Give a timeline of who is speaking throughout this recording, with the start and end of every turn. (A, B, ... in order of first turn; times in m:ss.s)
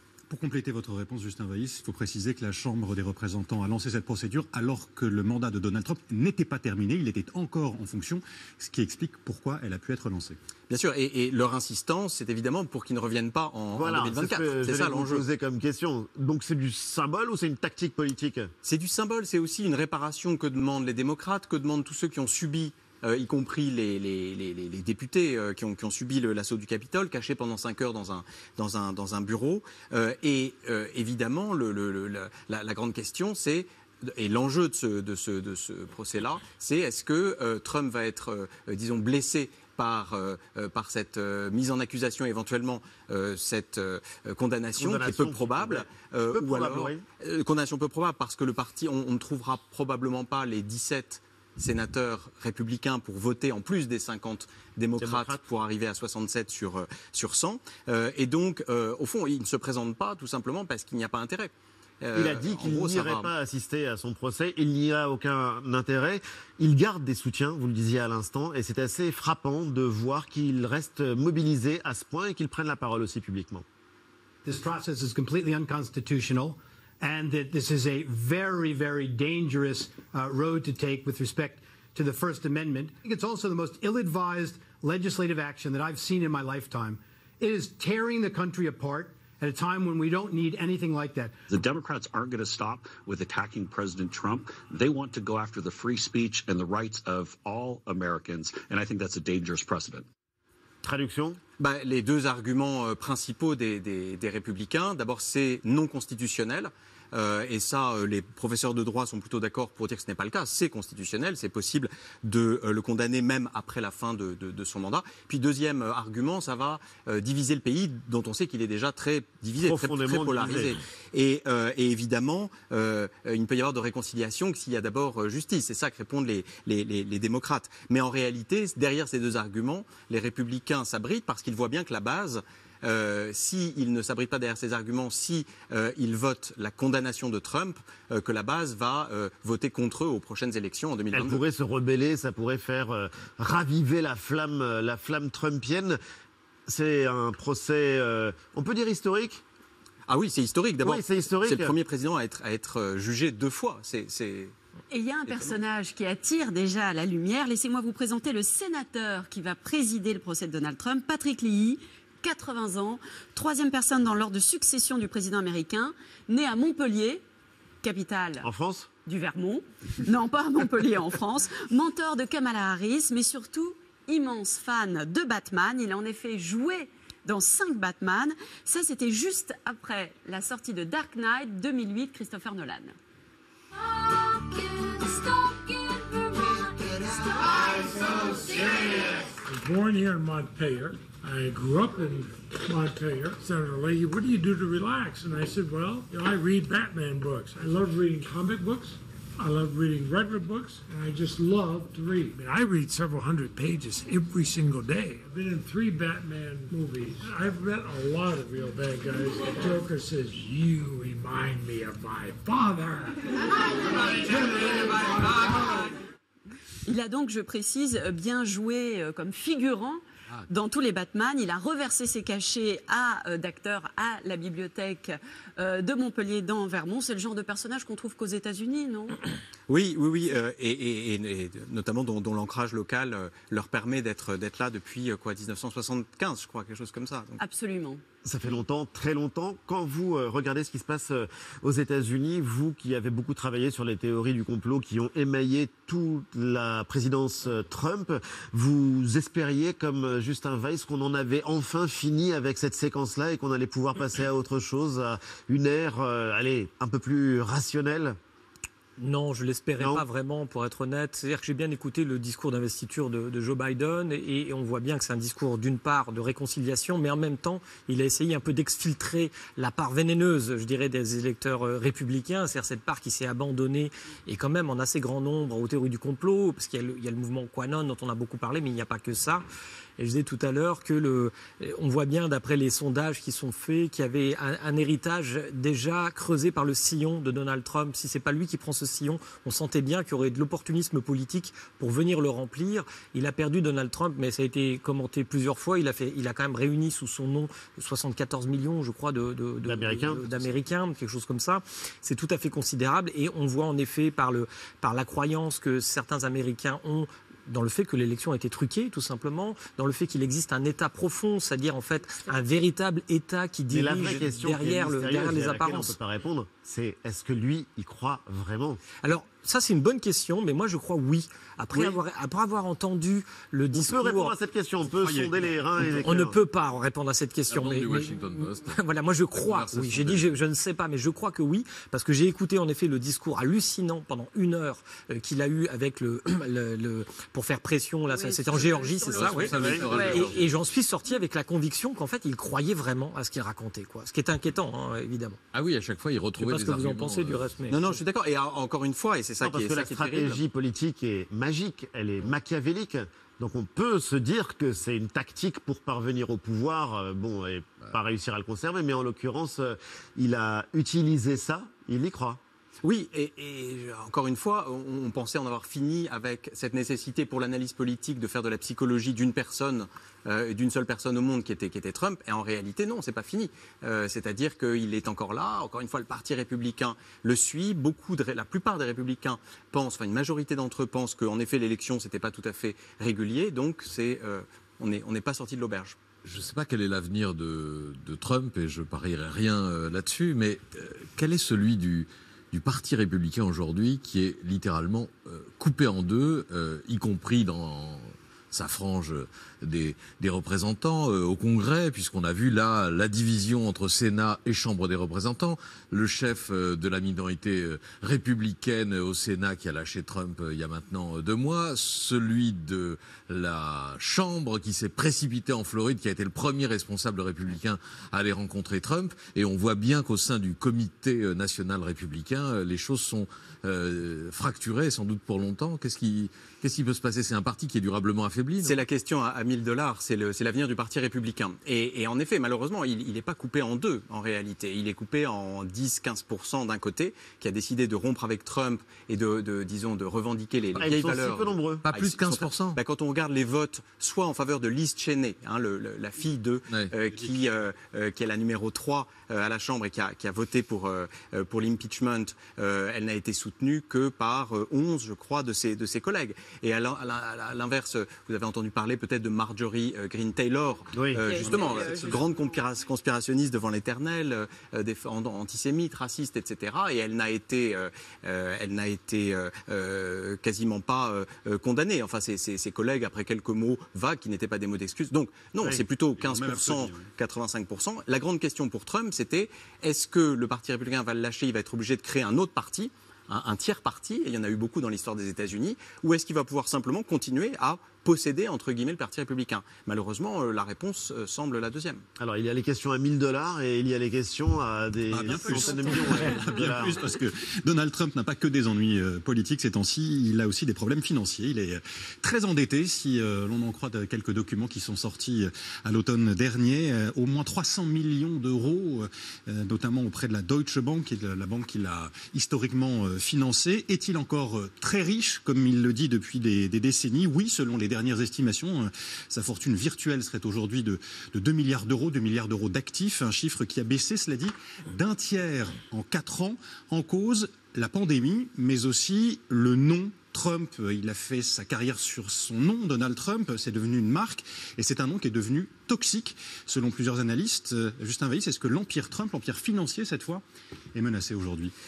0:00.3-0:10.4 A
0:10.7-0:15.2 B
0:13.8-0:18.5 C
0:18.6-1:03.3 B
0:44.8-0:47.0 C
0:55.0-0:55.4 C
1:02.1-1:13.6 C
1:14.4-1:31.4 D
1:31.5-1:40.0 E
1:40.8-1:41.4 C
1:41.6-2:21.4 B
1:59.6-2:00.8 C
2:21.1-2:26.0 C
2:26.7-2:29.4 C
2:30.1-2:34.6 B
2:30.8-2:31.7 C
2:34.9-2:47.2 F
2:35.3-2:35.6 B
2:47.8-2:48.5 F
2:48.4-2:48.9 C
2:49.1-3:03.0 F
3:08.4-3:33.3 G
3:34.0-3:35.8 G
3:36.9-3:49.2 F
3:49.7-3:57.4 B
3:57.4-3:58.0 F
3:58.2-4:18.2 C
4:19.0-4:39.4 H
4:19.8-4:20.0 C
4:40.0-5:16.0 H
4:59.6-5:00.3 C
5:13.7-5:18.8 C
5:19.0-5:24.4 H
5:21.7-5:22.0 C
5:23.7-5:26.4 C
5:25.0-5:25.5 I
5:25.8-5:45.4 H
5:27.5-5:28.8 I
5:29.3-5:30.3 I
5:38.1-5:40.3 F
5:39.1-5:40.4 I
5:39.5-5:40.0 C
5:45.5-5:47.4 I
5:46.4-5:48.0 H
5:47.7-5:50.4 B
5:49.4-6:02.4 C
6:02.8-6:26.0 B
6:26.2-7:08.8 I
7:08.6-8:12.0 B
7:20.8-7:21.9 C
7:21.9-7:22.8 I
7:40.9-7:41.2 C
7:41.2-7:42.2 A
7:41.3-7:42.2 F
7:55.6-7:57.1 A
8:12.2-8:17.0 C
8:15.1-9:01.7 A